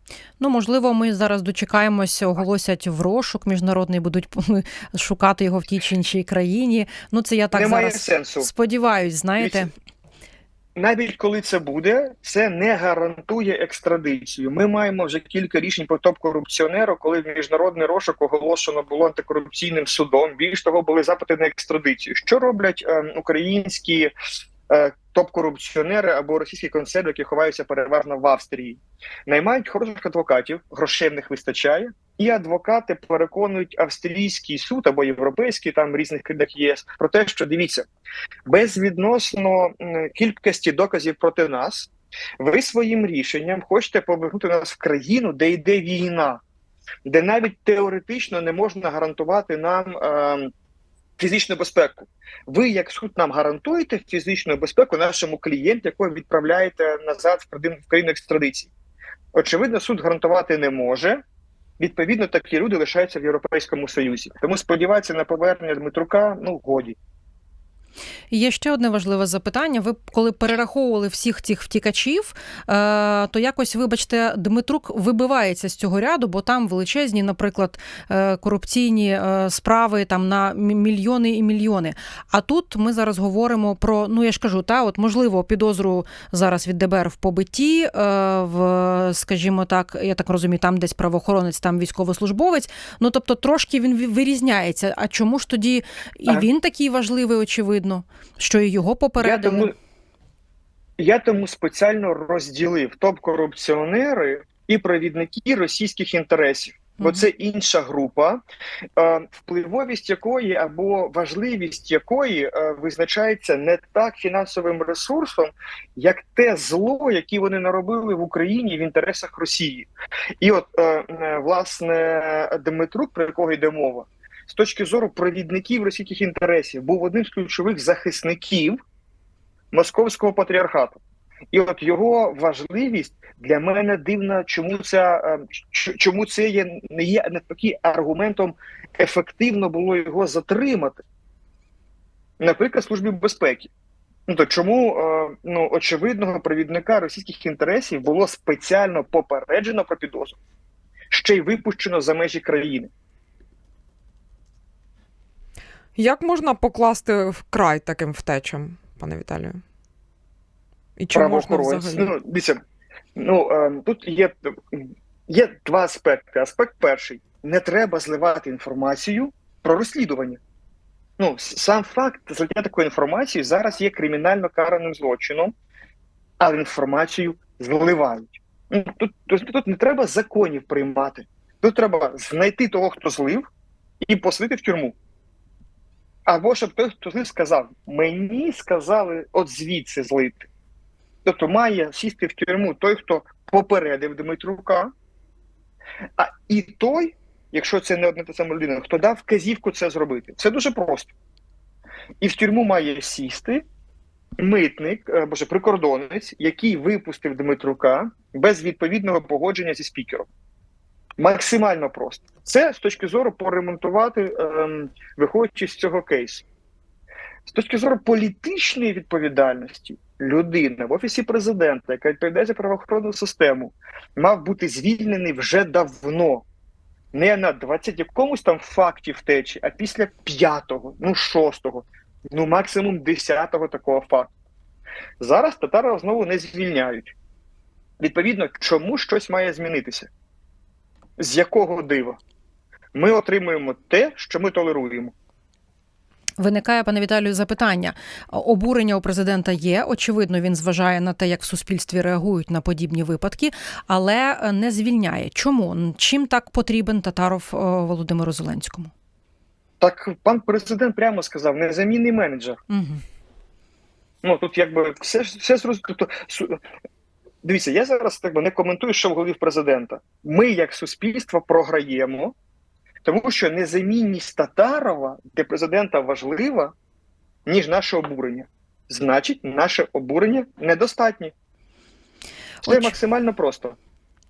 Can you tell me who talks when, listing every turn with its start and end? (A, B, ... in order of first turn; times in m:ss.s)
0:00.4-0:09.7 A
0:07.5-0:08.5 B
0:09.4-0:09.7 B
0:10.8-0:24.1 B
0:24.7-0:37.9 B
0:38.5-0:46.4 B
0:47.0-0:50.5 B
0:51.2-0:58.7 B
0:59.3-1:01.2 B
1:01.8-1:07.0 B
1:08.3-1:39.7 A
1:39.2-1:39.7 B
1:41.0-1:48.4 B
1:49.0-1:59.9 B
2:00.4-2:08.8 B
2:09.7-2:11.0 B
2:11.5-2:21.0 B
2:22.4-2:23.7 B
2:24.3-2:30.4 B
2:31.1-2:32.9 B
2:36.0-2:39.6 C
2:41.0-2:42.1 C
2:41.1-2:42.6 B
2:43.2-2:50.4 B
2:51.2-2:55.5 B
2:56.4-3:03.5 B
3:04.0-3:05.0 B
3:06.3-3:10.5 B
3:11.2-3:14.9 B
3:16.2-3:21.1 B
3:22.2-3:23.6 B
3:24.4-3:30.3 B
3:31.2-3:36.4 B
3:37.5-3:46.5 B
3:47.1-3:54.3 B
3:55.2-3:57.2 B
3:58.0-4:00.1 B
4:01.2-4:02.2 B
4:02.9-4:05.1 B
4:06.4-4:18.9 A
4:19.8-4:22.6 B
4:22.7-4:23.0 A
4:24.2-4:26.6 B
4:27.4-4:32.4 B
4:33.0-4:36.8 B
4:37.5-4:41.3 B
4:42.6-4:42.9 A
4:42.6-4:43.8 B